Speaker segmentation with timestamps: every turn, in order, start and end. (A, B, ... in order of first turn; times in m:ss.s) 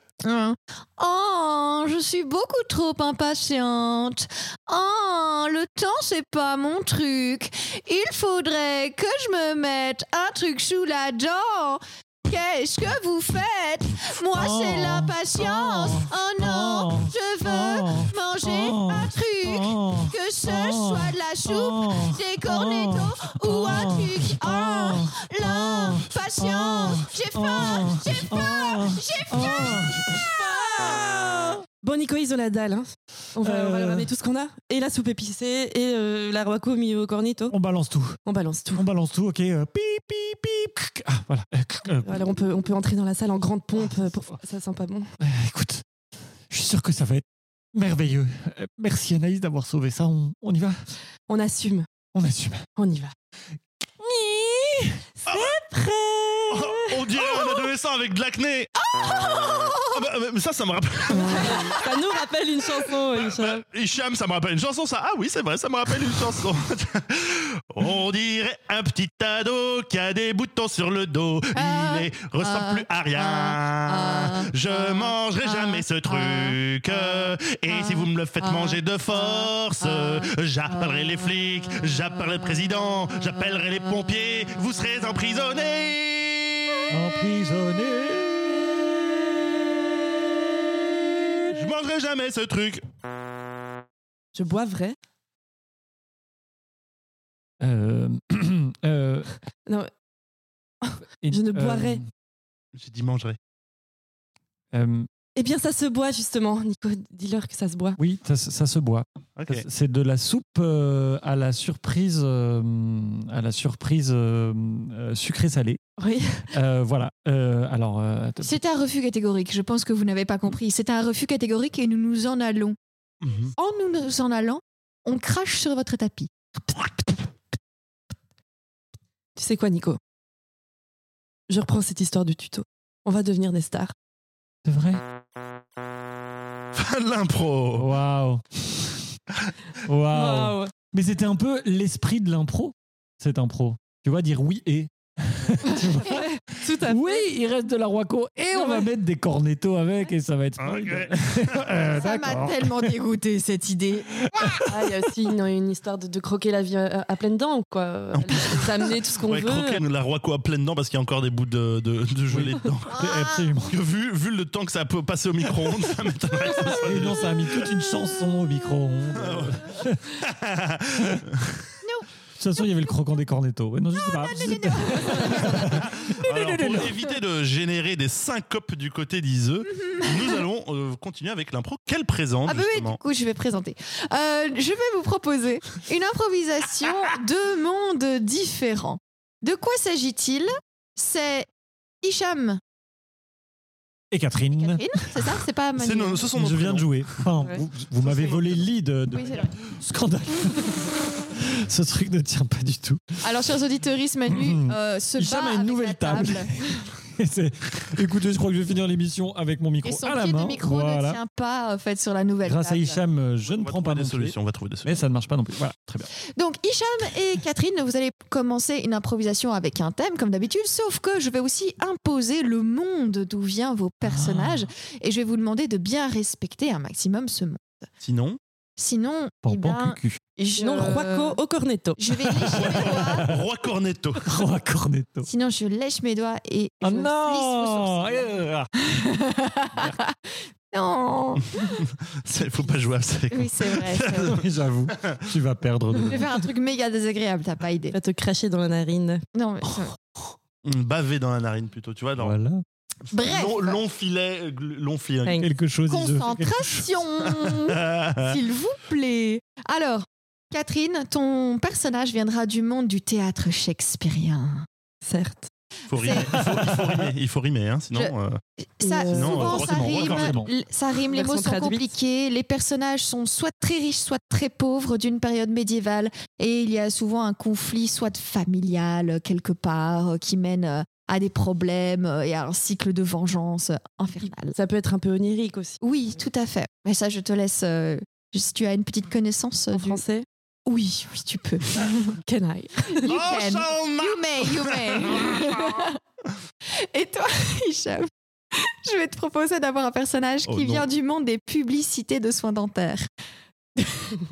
0:00.2-0:29.9 A
0:14.3-0:31.5 B
0:29.3-0:29.7 C
0:30.4-0:37.5 C
0:33.4-0:34.1 B
0:37.5-0:38.2 B
0:38.2-0:38.8 C
0:38.8-0:42.4 B
0:42.0-0:45.1 C
0:45.2-0:45.8 B
0:46.5-0:50.8 B
0:51.3-0:51.8 C
0:52.1-0:52.6 B
0:52.8-0:53.1 C
0:54.0-0:55.0 B
0:55.2-0:56.9 C
0:55.3-0:55.6 D
0:56.5-0:58.7 D
0:58.9-1:00.0 A
0:59.9-1:01.8 D
1:01.2-1:01.8 A
1:01.3-1:03.6 C
1:03.2-1:26.9 D
1:11.5-1:14.5 A
1:26.9-1:31.5 B
1:31.5-1:32.8 D
1:34.3-1:35.0 C
1:37.6-1:39.3 B
1:40.8-1:42.0 C
1:41.2-1:42.0 B
1:42.7-1:43.4 D
1:44.7-1:45.1 B
1:45.4-1:48.0 C
1:48.0-1:55.8 B
1:49.4-1:49.6 D
1:56.0-1:56.5 C
1:56.5-1:58.6 B
1:58.4-2:02.8 A
2:03.2-2:03.5 D
2:03.6-2:06.3 A
2:09.4-2:10.0 C
2:11.5-2:13.9 C
2:14.6-2:15.0 B
2:16.7-2:17.9 D
2:17.8-2:19.1 B
2:19.8-2:32.9 B
2:20.1-2:20.7 C
2:26.0-2:27.2 C
2:28.5-2:28.8 C
2:30.6-2:31.7 D
2:31.8-2:34.6 A
2:34.2-2:34.7 B
2:34.6-2:39.8 C
2:38.1-2:38.7 D
2:39.2-2:42.9 D
2:42.3-2:43.8 B
2:42.9-2:43.6 A
2:43.7-2:47.7 D
2:46.8-2:50.2 B
2:49.1-2:51.7 D
2:50.9-2:51.2 B
2:51.8-2:52.9 A
2:52.4-2:56.9 B
2:53.9-2:56.3 A
2:55.7-3:03.0 D
2:59.8-3:00.1 A
3:02.4-3:11.5 A
3:12.0-3:12.6 A
3:14.1-3:15.2 B
3:14.5-3:16.3 A
3:15.8-3:17.2 D
3:16.3-3:23.2 B
3:17.4-3:17.6 C
3:18.0-3:18.6 D
3:19.1-3:19.5 A
3:23.2-3:26.5 A
3:24.3-3:31.2 B
3:29.8-3:33.0 A
3:32.4-3:36.1 B
3:33.5-3:35.0 D
3:36.4-3:47.7 A
3:44.0-3:44.7 B
3:48.0-3:48.4 D
3:48.8-3:51.4 A
3:49.4-3:50.2 B
3:50.6-3:52.0 C
3:52.0-3:53.3 A
3:52.3-3:53.4 B
3:52.5-3:54.3 D
3:54.2-3:55.3 B
3:55.2-4:01.8 A
3:56.8-3:58.7 B
4:01.6-4:04.4 D
4:03.3-4:04.4 A
4:04.0-4:06.4 B
4:05.0-4:05.3 D
4:06.0-4:07.9 A
4:07.9-4:09.2 C
4:09.3-4:09.9 A
4:10.6-4:12.3 D
4:12.2-4:12.6 B
4:13.1-4:13.8 A
4:13.2-4:15.4 D
4:15.2-4:15.5 C
4:15.4-4:16.9 B
4:15.9-4:24.6 A
4:17.2-4:18.4 D
4:25.0-4:25.5 C
4:25.9-4:28.4 D
4:25.9-4:26.4 A
4:26.3-4:26.7 B
4:28.0-4:44.5 A
4:28.8-4:29.6 C
4:29.1-4:30.4 D
4:29.5-4:30.5 B
4:31.1-4:31.9 C
4:44.2-4:45.8 C
4:45.8-4:50.0 A
4:49.7-4:50.2 C
4:50.6-4:52.2 A
4:52.2-4:53.1 C
4:52.9-4:56.0 A
4:53.0-4:55.8 D
4:56.7-5:03.1 A
5:00.4-5:00.8 D
5:03.8-5:04.2 A